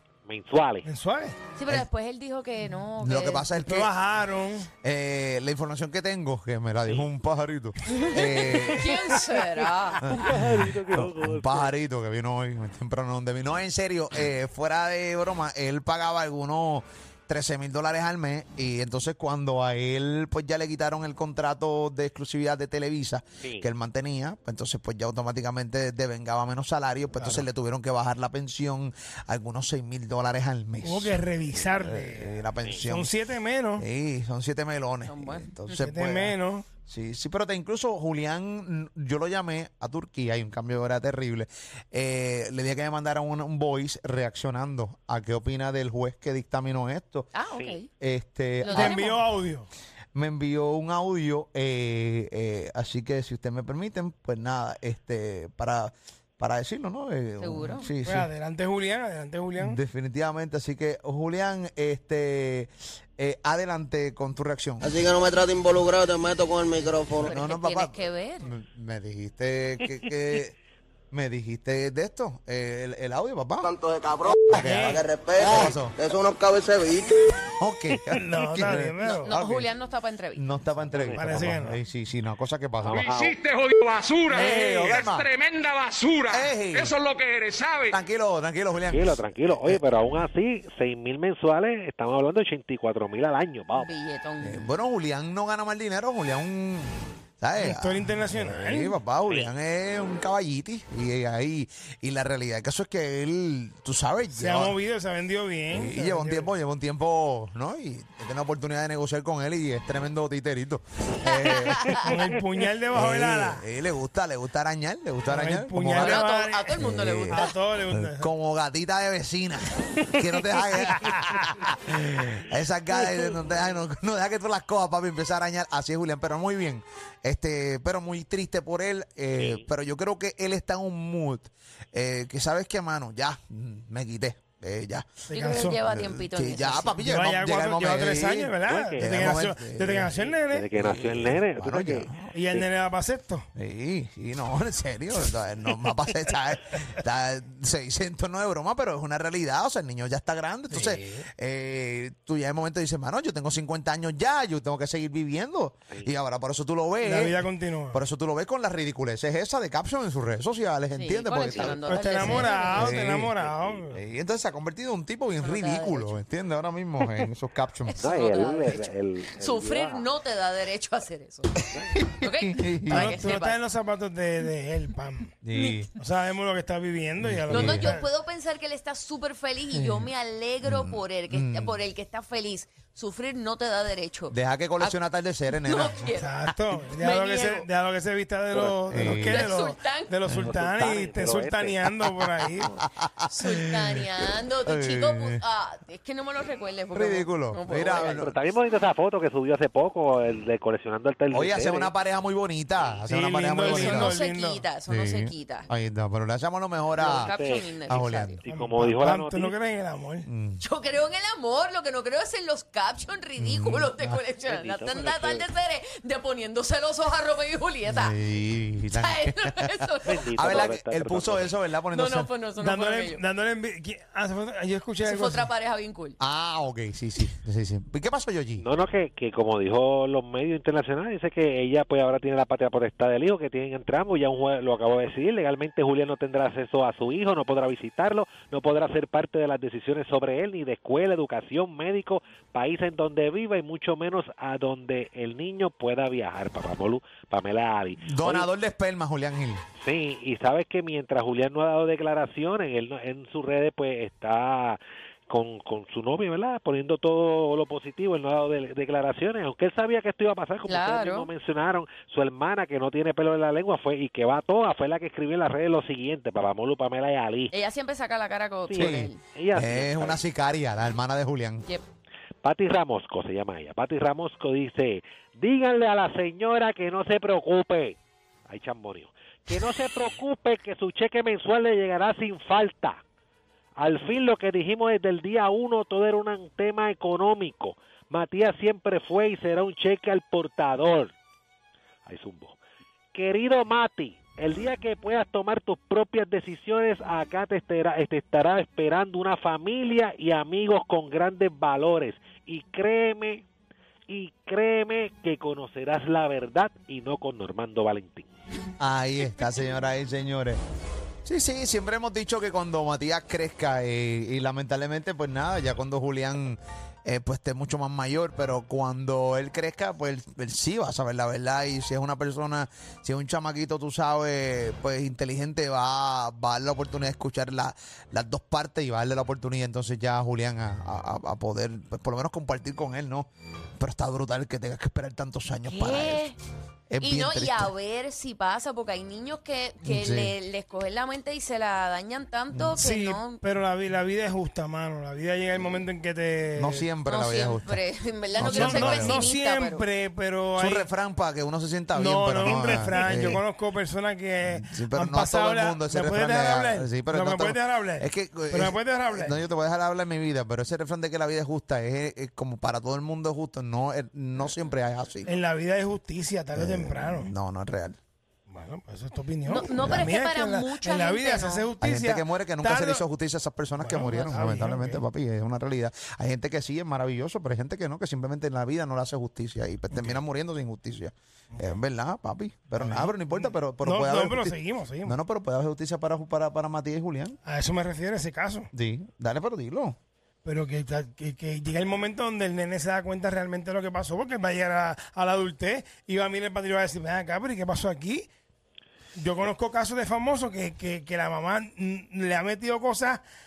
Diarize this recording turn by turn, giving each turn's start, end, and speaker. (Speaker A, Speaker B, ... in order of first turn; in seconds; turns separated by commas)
Speaker A: 0.3-0.9, Speaker B: 0.8-1.4, Speaker C: 1.6-3.5, Speaker D: 3.0-3.9, Speaker B: 3.6-4.7, Speaker D: 4.8-9.3, Speaker C: 7.9-10.2, Speaker D: 10.0-33.1, Speaker A: 10.2-11.7, Speaker A: 23.4-23.7, Speaker B: 27.2-27.4, Speaker B: 30.8-33.9, Speaker D: 33.8-47.3, Speaker C: 35.1-35.7, Speaker B: 35.8-36.7, Speaker C: 47.4-47.9, Speaker D: 48.0-49.2, Speaker C: 48.6-49.2, Speaker B: 48.7-49.7, Speaker D: 50.1-58.3, Speaker C: 57.4-57.9, Speaker B: 58.0-59.8, Speaker D: 59.6-65.1, Speaker E: 64.8-67.3, Speaker C: 67.2-68.5, Speaker D: 67.2-70.5, Speaker D: 71.1-73.7, Speaker E: 73.6-77.2, Speaker D: 74.2-76.0, Speaker B: 74.5-75.1, Speaker D: 77.6-79.7, Speaker B: 78.1-79.3, Speaker C: 79.1-80.5, Speaker D: 80.3-83.2, Speaker A: 80.9-81.6, Speaker B: 81.2-81.8, Speaker A: 82.8-83.4, Speaker F: 82.9-88.0, Speaker D: 84.3-85.3, Speaker D: 86.3-87.0, Speaker D: 87.9-89.8, Speaker A: 88.9-93.9, Speaker C: 93.8-94.7, Speaker D: 94.4-104.8, Speaker B: 97.6-99.0, Speaker B: 104.4-106.5, Speaker D: 105.7-112.1, Speaker C: 111.2-112.1, Speaker B: 112.0-113.7, Speaker D: 112.9-135.1, Speaker B: 115.3-118.3, Speaker C: 116.0-117.5, Speaker A: 129.3-129.7, Speaker B: 135.3-135.8, Speaker C: 135.3-137.0, Speaker D: 135.8-140.2, Speaker B: 137.0-140.7, Speaker A: 138.7-139.4, Speaker A: 140.1-142.1, Speaker D: 140.7-142.7, Speaker B: 142.3-143.5, Speaker D: 143.6-163.3, Speaker B: 157.0-158.0, Speaker C: 160.9-162.9, Speaker A: 161.4-161.7, Speaker B: 161.8-164.0, Speaker A: 163.4-163.8, Speaker D: 163.9-168.0, Speaker C: 165.4-166.2, Speaker C: 167.9-171.6, Speaker A: 168.0-170.1, Speaker D: 171.9-173.2, Speaker C: 172.2-173.6, Speaker B: 172.9-175.3, Speaker D: 175.4-175.9, Speaker C: 175.5-175.9, Speaker B: 176.0-178.1, Speaker D: 177.2-178.0, Speaker C: 177.5-185.0, Speaker D: 179.7-180.1, Speaker D: 180.6-181.8, Speaker D: 184.3-186.1, Speaker C: 185.5-186.3, Speaker B: 186.2-192.7, Speaker C: 187.0-187.7, Speaker D: 188.9-189.5, Speaker C: 189.0-190.1, Speaker A: 190.3-191.8, Speaker D: 192.6-195.4, Speaker C: 193.3-198.2, Speaker D: 196.9-198.3, Speaker A: 197.9-201.9, Speaker D: 201.3-204.2, Speaker B: 203.1-204.6, Speaker C: 203.6-205.7, Speaker D: 204.9-207.3, Speaker A: 207.0-207.7, Speaker C: 207.0-208.4, Speaker D: 207.9-208.4, Speaker A: 208.4-209.6, Speaker B: 208.5-210.3, Speaker D: 210.2-210.6, Speaker C: 210.6-218.2, Speaker D: 213.4-214.2, Speaker A: 214.4-215.4, Speaker D: 217.9-222.3, Speaker C: 218.9-220.7, Speaker A: 220.1-221.5, Speaker C: 221.9-223.2, Speaker B: 222.6-225.5, Speaker C: 225.0-226.2, Speaker D: 226.2-228.7, Speaker A: 228.6-248.5, Speaker D: 248.0-249.6, Speaker A: 249.8-267.5, Speaker C: 260.7-261.3, Speaker C: 267.5-269.2, Speaker A: 268.7-270.2, Speaker D: 268.8-271.6, Speaker A: 272.4-283.0, Speaker A: 283.8-291.1, Speaker A: 292.1-292.6, Speaker A: 293.1-303.4, Speaker A: 304.1-308.3, Speaker D: 308.8-310.6, Speaker D: 311.2-333.3, Speaker D: 333.8-336.2, Speaker C: 335.7-336.4, Speaker D: 336.9-337.7, Speaker C: 337.0-343.4, Speaker D: 339.8-340.4, Speaker D: 342.5-342.8, Speaker B: 342.8-346.9, Speaker D: 346.6-347.8, Speaker C: 347.1-349.9, Speaker D: 348.4-349.3, Speaker B: 348.4-350.9, Speaker D: 350.6-353.4, Speaker B: 351.9-359.4, Speaker D: 354.4-365.3, Speaker B: 365.3-367.3, Speaker D: 366.6-368.0, Speaker B: 368.5-373.0, Speaker C: 369.5-371.7, Speaker D: 369.8-370.1, Speaker D: 371.8-387.4, Speaker B: 373.8-375.0, Speaker B: 382.8-385.2, Speaker B: 387.4-388.7, Speaker D: 388.7-390.0, Speaker B: 390.4-398.3, Speaker B: 399.2-403.2